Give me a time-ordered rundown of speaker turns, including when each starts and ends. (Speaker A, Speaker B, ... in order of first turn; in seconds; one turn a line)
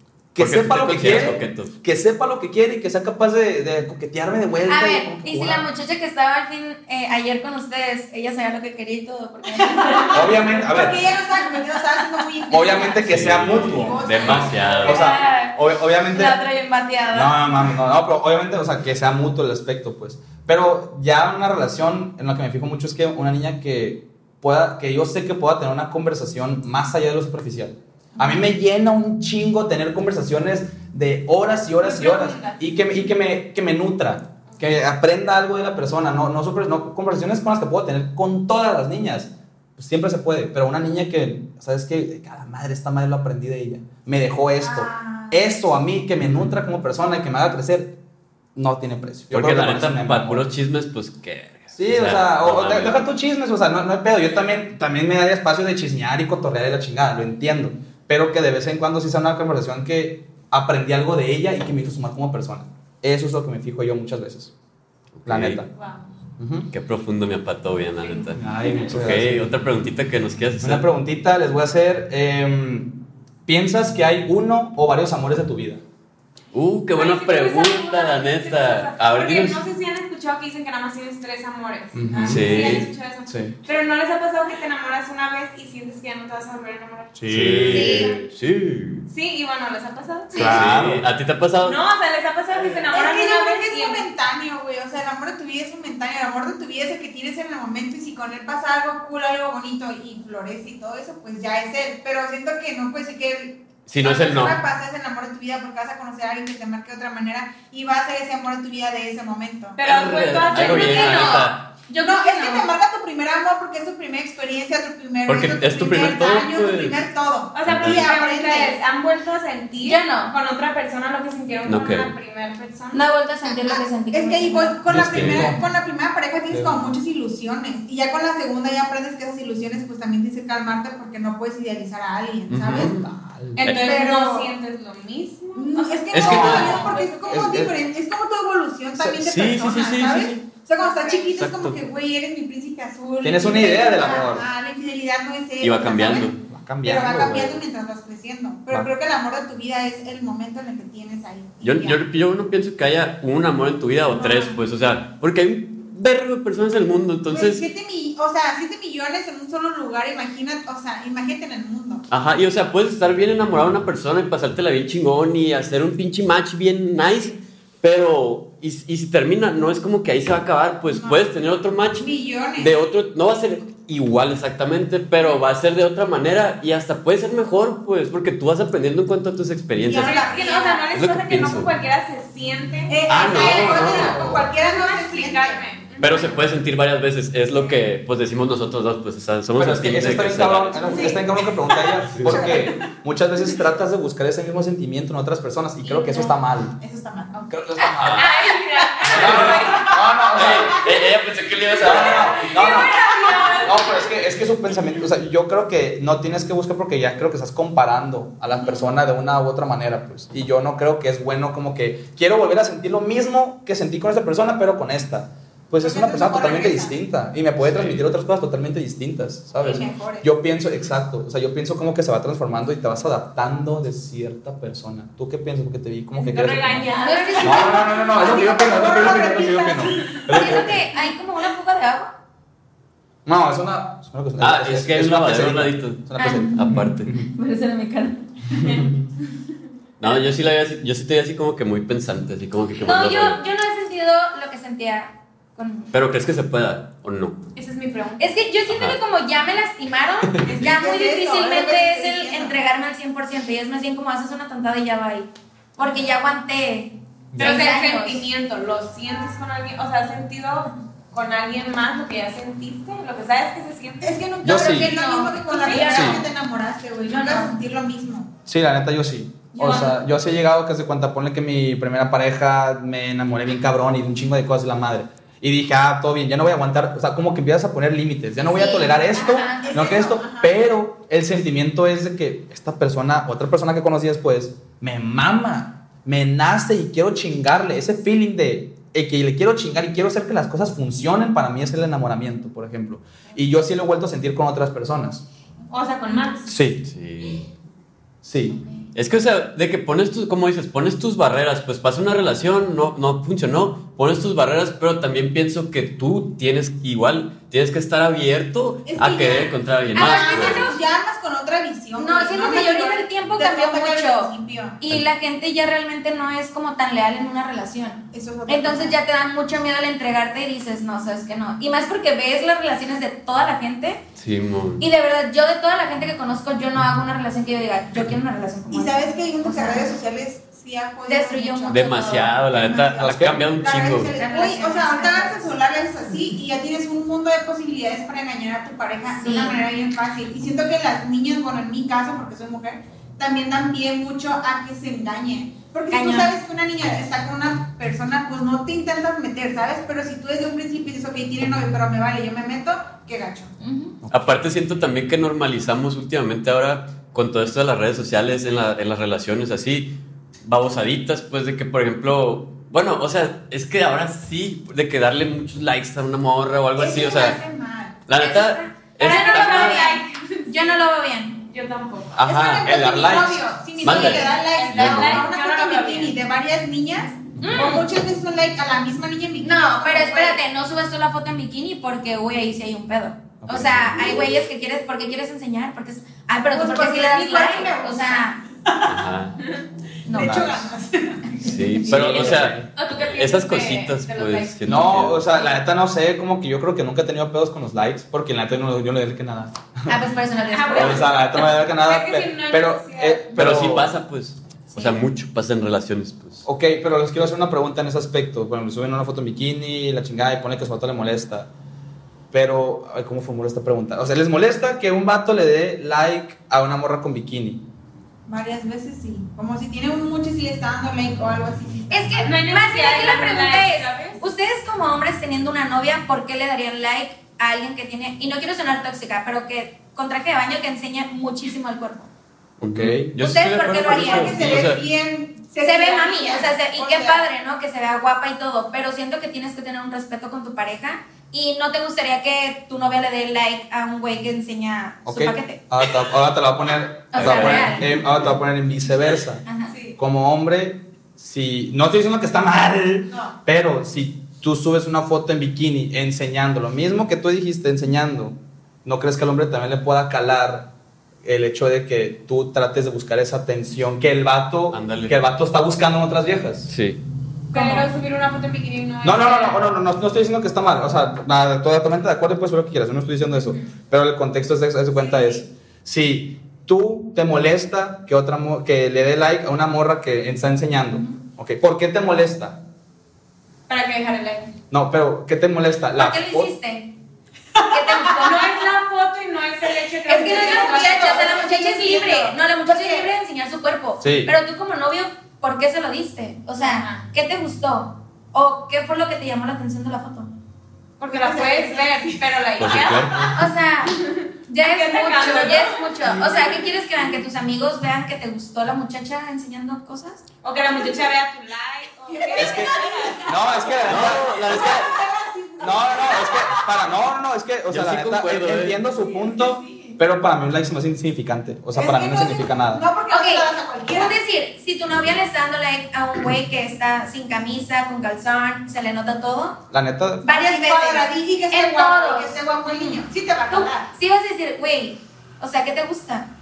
Speaker A: 0.3-5.7
Speaker B: 0.4-1.7
Speaker C: 4.7-10.3
Speaker D: 9.9-15.0
Speaker A: 10.1-11.0
Speaker A: 12.5-16.4
Speaker B: 13.0-15.1
Speaker C: 14.8-17.4
Speaker A: 17.1-48.0
Speaker E: 31.8-32.6
Speaker D: 44.6-45.5
Speaker B: 46.2-46.5
Speaker A: 48.6-50.5
Speaker B: 49.3-53.0
Speaker A: 51.7-64.5
Speaker B: 65.2-65.6
Speaker A: 65.3-65.7
Speaker E: 65.7-66.1
Speaker A: 66.4-66.7
Speaker B: 66.7-70.9
Speaker E: 68.0-68.9
Speaker A: 68.4-69.6
Speaker A: 70.6-75.8
Speaker B: 76.5-79.6
Speaker E: 76.9-87.2
Speaker A: 81.9-83.5
Speaker D: 82.1-82.5
Speaker B: 82.3-82.8
Speaker A: 87.2-88.1
Speaker B: 87.3-89.1
Speaker C: 87.7-88.1
Speaker E: 87.7-88.2
Speaker E: 89.1-90.6
Speaker C: 90.3-90.6
Speaker A: 90.3-91.1
Speaker B: 90.4-91.8
Speaker E: 91.6-94.1
Speaker D: 92.9-109.8
Speaker B: 103.9-104.6
Speaker E: 109.8-111.5
Speaker B: 109.8-111.7
Speaker C: 110.5-112.7
Speaker D: 112.0-118.8
Speaker B: 115.3-117.0
Speaker E: 117.5-123.0
Speaker B: 117.7-118.1
Speaker C: 119.8-120.3
Speaker B: 121.7-122.1
Speaker C: 122.9-124.8
Speaker D: 123.5-133.0
Speaker A: 124.9-125.7
Speaker B: 124.9-125.5
Speaker A: 126.5-126.9
Speaker B: 132.5-133.1
Speaker A: 132.9-133.6
Speaker E: 133.6-137.4
Speaker D: 133.7-134.5
Speaker D: 135.6-146.3
Speaker B: 136.1-136.9
Speaker A: 136.2-137.8
Speaker A: 139.0-139.3
Speaker B: 139.2-140.4
Speaker E: 140.8-141.2
Speaker B: 141.2-141.8
Speaker A: 143.2-144.5
Speaker B: 145.6-146.4
Speaker A: 146.4-147.6
Speaker D: 146.8-152.0
Speaker B: 151.6-157.7
Speaker D: 154.1-154.6
Speaker D: 157.3-162.1
Speaker B: 162.1-180.2
Speaker D: 170.9-171.2
Speaker D: 172.0-172.8
Speaker D: 179.8-180.9
Speaker E: 179.9-186.4
Speaker B: 180.9-181.7
Speaker D: 182.9-185.6
Speaker B: 183.1-184.3
Speaker A: 183.9-184.5
Speaker B: 186.0-190.8
Speaker A: 189.6-196.8
Speaker D: 190.8-191.2
Speaker E: 190.9-191.2
Speaker B: 192.1-192.6
Speaker D: 192.3-192.8
Speaker D: 195.8-197.6
Speaker A: 197.5-198.3
Speaker B: 197.9-198.3
Speaker E: 198.1-199.9
Speaker D: 199.0-199.3
Speaker B: 199.1-202.5
Speaker A: 199.1-200.9
Speaker A: 201.8-203.1
Speaker D: 201.9-203.7
Speaker E: 202.2-204.1
Speaker A: 203.6-226.9
Speaker D: 215.8-216.9
Speaker B: 217.8-218.0
Speaker D: 219.6-220.3
Speaker E: 226.2-228.2
Speaker C: 226.9-228.4
Speaker A: 227.4-230.8
Speaker D: 227.7-230.6
Speaker C: 230.3-232.1
Speaker A: 233.3-237.3
Speaker B: 234.4-237.1
Speaker C: 236.2-238.9
Speaker A: 238.6-239.1
Speaker B: 240.0-243.4
Speaker C: 242.8-245.9
Speaker B: 245.9-247.4
Speaker E: 247.6-248.3
Speaker C: 248.2-258.3
Speaker B: 248.7-249.0
Speaker D: 250.4-252.6
Speaker A: 257.3-257.6
Speaker E: 257.4-264.2
Speaker D: 264.0-268.3
Speaker A: 264.4-264.9
Speaker C: 264.5-266.3
Speaker E: 265.5-266.1
Speaker A: 265.9-266.2
Speaker C: 267.1-267.5
Speaker A: 268.5-295.2
Speaker C: 269.5-270.0
Speaker C: 278.4-280.0
Speaker D: 279.6-280.5
Speaker E: 295.7-296.5
Speaker A: 296.5-296.9
Speaker B: 296.8-297.4
Speaker A: 298.2-298.6
Speaker B: 298.9-310.7
Speaker D: 308.9-314.8
Speaker C: 309.9-310.8
Speaker C: 312.0-324.0
Speaker D: 318.1-319.0
Speaker B: 324.2-324.8
Speaker C: 324.8-329.9
Speaker D: 328.7-353.5
Speaker C: 331.1-332.3
Speaker B: 331.7-334.1
Speaker A: 332.7-333.4
Speaker C: 334.1-335.5
Speaker C: 339.1-339.6
Speaker C: 345.9-346.3
Speaker C: 353.6-354.0
Speaker A: 354.0-354.4
Speaker B: 354.1-359.9
Speaker B: 360.4-367.4
Speaker D: 366.8-368.0
Speaker B: 368.1-369.9
Speaker C: 368.1-371.4
Speaker E: 369.0-370.8
Speaker D: 369.6-369.9
Speaker E: 371.5-372.2
Speaker B: 372.1-372.8
Speaker D: 372.2-380.4
Speaker A: 372.6-373.5
Speaker B: 373.8-375.3
Speaker E: 373.9-376.1
Speaker E: 377.4-377.9
Speaker C: 377.4-377.8
Speaker C: 379.4-388.4
Speaker A: 383.4-384.1
Speaker D: 386.5-389.0
Speaker B: 388.9-389.4
Speaker C: 390.1-390.5
Speaker D: 390.1-391.5
Speaker A: 390.1-390.7
Speaker B: 391.4-395.2
Speaker A: 391.8-392.7
Speaker E: 392.1-394.9
Speaker A: 394.6-400.0
Speaker C: 399.9-401.1
Speaker E: 400.5-403.3
Speaker A: 400.7-403.9
Speaker B: 403.3-406.5
Speaker C: 404.7-405.0
Speaker A: 406.4-411.5
Speaker A: 412.3-417.6
Speaker D: 418.3-422.3
Speaker C: 421.9-432.1
Speaker E: 422.2-424.2
Speaker B: 432.6-434.8
Speaker A: 432.6-433.1
Speaker C: 433.2-434.4
Speaker D: 433.7-437.3
Speaker C: 435.6-445.6
Speaker A: 445.1-449.4
Speaker C: 447.1-448.0
Speaker B: 447.2-447.8
Speaker C: 449.4-449.7
Speaker A: 450.0-460.7
Speaker D: 453.1-453.4
Speaker A: 461.2-466.7
Speaker B: 464.7-465.2
Speaker B: 466.7-467.0
Speaker E: 467.5-469.6
Speaker C: 467.6-467.9
Speaker A: 469.0-482.6
Speaker E: 483.7-484.5
Speaker A: 484.7-486.5
Speaker C: 485.9-486.9
Speaker C: 487.6-488.5
Speaker E: 488.2-491.4
Speaker C: 490.1-500.3
Speaker D: 490.1-493.1
Speaker A: 494.0-494.3
Speaker E: 496.7-497.1
Speaker E: 501.0-503.3
Speaker D: 501.1-502.3
Speaker B: 502.6-503.2
Speaker A: 502.7-503.3
Speaker C: 503.3-510.2
Speaker E: 504.1-506.5
Speaker E: 510.4-513.4
Speaker D: 512.1-516.5
Speaker A: 512.4-514.4
Speaker B: 513.8-515.0
Speaker A: 515.6-522.8
Speaker B: 517.7-518.8
Speaker D: 519.3-519.9
Speaker D: 521.7-524.2
Speaker C: 523.1-529.6
Speaker A: 529.7-530.2
Speaker C: 530.2-536.3
Speaker D: 530.3-533.9